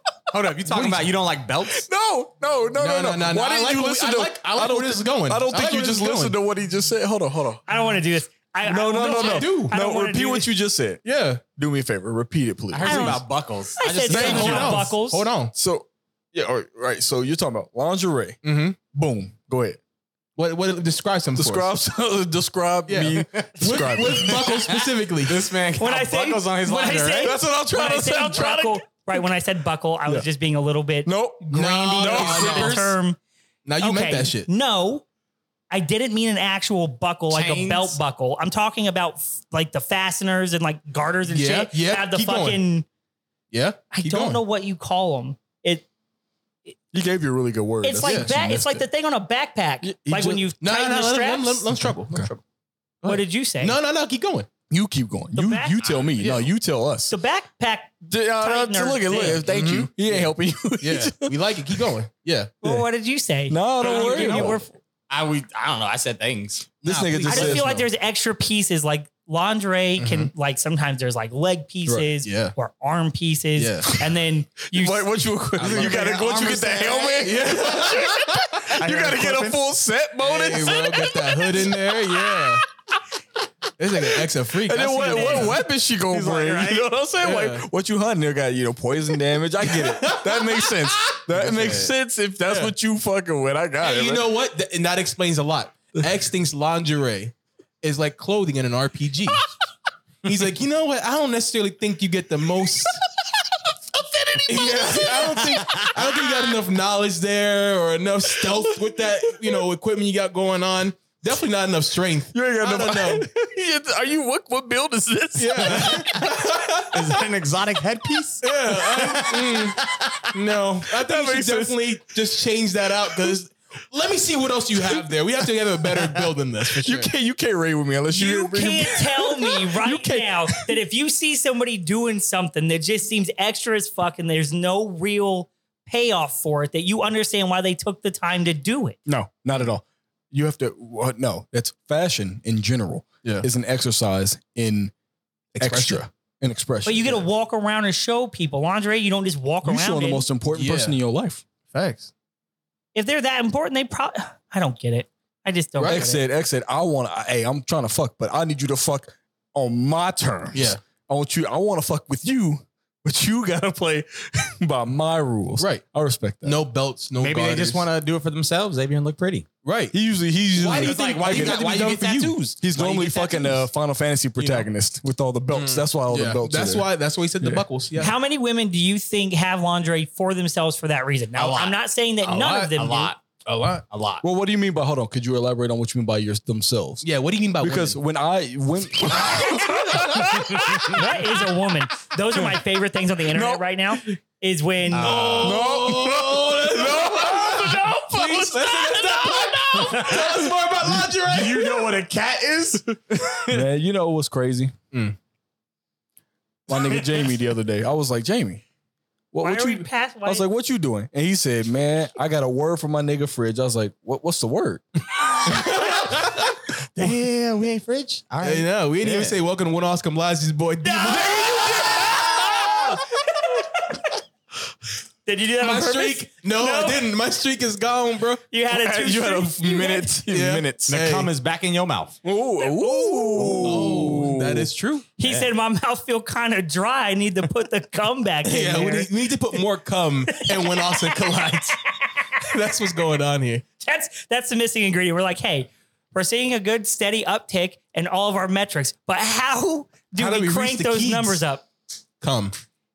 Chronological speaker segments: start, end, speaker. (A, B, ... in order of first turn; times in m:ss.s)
0:00.3-0:01.8 A
0:00.7-0:01.1 B
0:01.7-0:07.6 C
0:02.8-0:06.4 B
0:07.7-0:10.5 D
0:08.6-0:13.2 C
0:09.1-0:09.7 B
0:11.0-0:11.4 B
0:12.7-0:14.9 A
0:12.8-0:15.3 D
0:14.1-0:15.5 B
0:14.1-0:14.8 C
0:15.5-0:18.4 C
0:18.4-0:18.8 B
0:18.9-0:19.8 C
0:20.4-0:21.7 B
0:21.4-0:24.6 C
0:22.9-0:25.4 B
0:23.1-0:27.4 A
0:25.8-0:33.2 D
0:27.2-0:29.2 C
0:31.1-0:32.9 C
0:31.5-0:32.9 B
0:33.6-0:34.5 B
0:33.8-0:35.0 D
0:35.7-0:42.9 D
0:37.3-0:38.0 A
0:41.2-0:42.6 B
0:43.5-0:44.4 B
0:43.9-0:45.9 D
0:46.9-0:48.8 C
0:47.8-0:51.7 D
0:48.0-0:48.3 B
0:49.8-0:50.5 C
0:50.6-0:52.4 B
0:53.0-0:54.5 B
0:53.1-0:53.8 D
0:54.7-0:57.1 C
0:55.4-0:56.0 D
0:56.0-0:56.3 A
0:56.2-0:56.4 B
0:57.1-0:59.4 D
0:58.1-1:01.8 C
0:59.4-1:02.5 B
1:02.6-1:04.7 D
1:03.5-1:04.6 C
1:03.8-1:06.7 A
1:06.8-1:07.7 B
1:06.8-1:07.8 C
1:07.3-1:17.2 D
1:10.0-1:10.3 B
1:12.2-1:12.6 B
1:13.6-1:13.9 B
1:14.7-1:22.6 C
1:15.6-1:16.4 B
1:17.1-1:18.7 B
1:18.8-1:19.6 A
1:20.2-1:22.6 B
1:23.8-1:25.6 B
1:24.6-1:34.3 C
1:25.1-1:25.5 D
1:26.1-1:26.9 A
1:27.2-1:27.6 B
1:29.6-1:31.9 B
1:32.4-1:32.7 B
1:33.8-1:39.5 B
1:40.2-1:43.0 B
1:43.2-1:46.2 C
1:44.4-1:53.2 B
1:48.4-1:49.5 C
1:52.3-1:56.6 C
1:55.4-1:56.9 B
1:56.9-2:00.3 A
1:58.4-1:59.8 B
2:00.3-2:07.1 B
2:00.9-2:01.8 C
2:05.9-2:10.8 C
2:08.1-2:19.0 D
2:19.1-2:24.9 C
2:25.6-2:26.1 B
2:25.6-2:27.2 C
2:26.8-2:30.2 D
2:29.6-2:31.4 C
2:30.5-2:31.0 B
2:31.7-2:32.1 B
2:32.9-2:36.2 D
2:35.8-2:36.0 B
2:35.8-2:46.6 C
2:40.5-2:40.8 B
2:45.6-2:45.8 B
2:46.4-2:47.9 B
2:47.2-2:49.4 A
2:49.6-2:49.9 B
2:49.9-2:51.6 C
2:50.6-2:53.7 A
2:50.6-2:52.5 B
2:52.6-2:56.9 C
2:54.4-2:54.7 A
2:55.5-2:58.1 B
2:58.0-3:03.1 D
3:01.4-3:01.8 A
3:02.2-3:02.7 B
3:02.7-3:03.2 A
3:03.4-3:03.8 B
3:03.9-3:04.2 A
3:04.2-3:07.0 C
3:07.0-3:08.0 B
3:07.6-3:11.4 C
3:10.5-3:10.9 A
3:10.9-3:15.2 D
3:13.3-3:14.1 C
3:14.9-3:15.6 A
3:14.9-3:21.7 B
3:15.4-3:21.8 C
3:19.7-3:20.4 A
3:21.3-3:23.6 A
3:23.5-3:24.7 C
3:24.9-3:25.2 B
3:26.7-3:28.6 C
3:26.9-3:27.2 A
3:29.3-3:34.8 C
3:29.4-3:30.4 D
3:35.4-3:36.5 B
3:35.9-3:36.2 A
3:37.0-3:39.4 A
3:38.4-3:42.6 B
3:40.8-3:43.9 D
3:45.2-3:47.0 D
3:45.6-3:48.4 B
3:48.5-3:50.1 D
3:48.7-3:51.0 C
3:50.3-3:51.3 B
3:50.9-3:52.2 A
3:52.2-3:54.7 C
3:52.6-3:53.9 D
3:53.4-3:55.1 B
3:55.2-3:59.1 D
3:55.2-3:55.5 A
3:58.4-4:01.8 B
4:00.5-4:01.1 D
4:02.4-4:03.6 B
4:03.8-4:11.6 D
4:10.2-4:11.4 B
4:12.2-4:12.6 B